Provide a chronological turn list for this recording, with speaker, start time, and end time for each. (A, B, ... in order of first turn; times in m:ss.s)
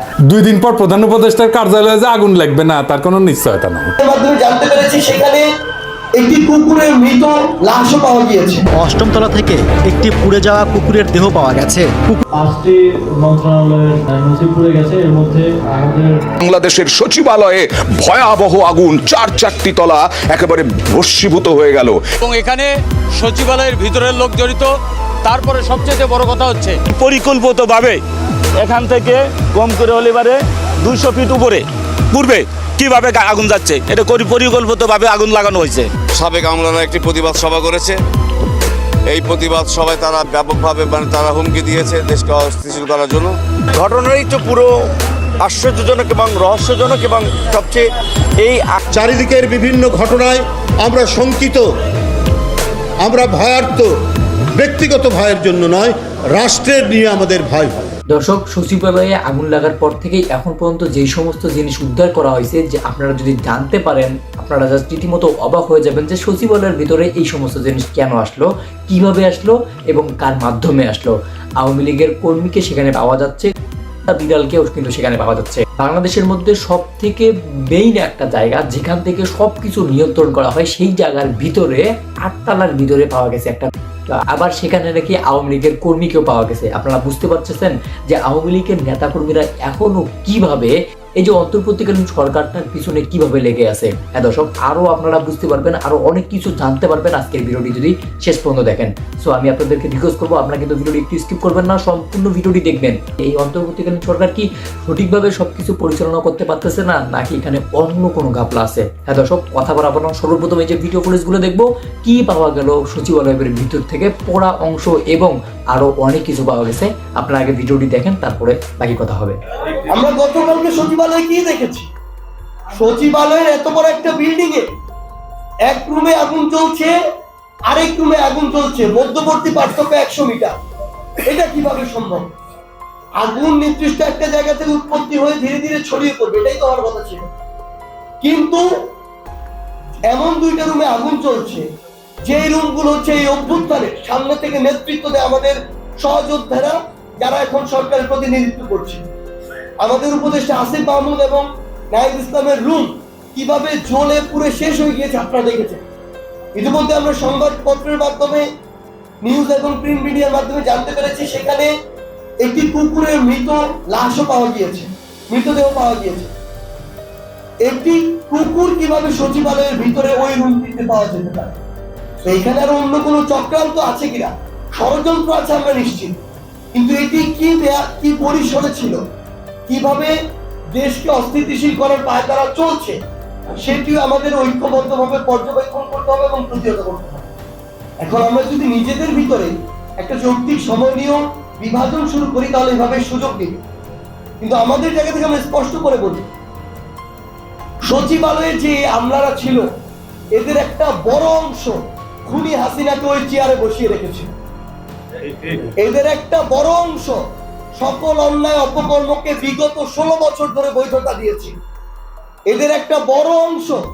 0:00.2-0:03.9 A
0:04.0-0:05.5 B
0:06.2-0:08.6 B
0:08.8-0:11.9 C
0:12.3-0:16.2 D
0:16.5-0:22.0 E
0:22.2-0:24.7 F
0:25.2-0:26.8 F
0:26.9-0:28.0 G
0:28.6-0:35.9 G
0:36.1-0:38.0 H
0:39.1-0:43.3 H
0:43.8-0:44.7 I
0:45.5-0:47.8 I
0:48.9-0:51.6 J
0:53.0-0:53.9 J
0:54.6-0:57.8 J
0:58.1-1:13.5 K
1:14.1-1:59.4 K
1:59.9-2:01.9 B
2:02.7-2:04.7 B
2:05.7-2:06.9 B
2:07.7-2:10.5 B
2:11.2-2:12.2 B
2:13.2-2:17.3 B
2:18.2-2:18.6 B
2:20.1-2:21.6 B
2:22.2-2:29.0 B
2:29.8-2:35.8 B
2:36.6-2:38.4 B
2:39.2-2:41.7 B
2:42.4-2:46.3 B
2:47.6-2:51.6 B
2:52.2-2:56.2 B
2:56.7-2:59.0 B
2:59.7-3:00.1 B
3:00.7-3:03.0 B
3:03.6-3:07.2 B
3:08.0-3:13.6 B
3:14.4-3:16.3 B
3:17.8-3:19.6 B
3:20.4-3:24.3 B
3:25.8-3:27.2 B
3:27.8-3:31.5 B
3:32.5-3:33.8 B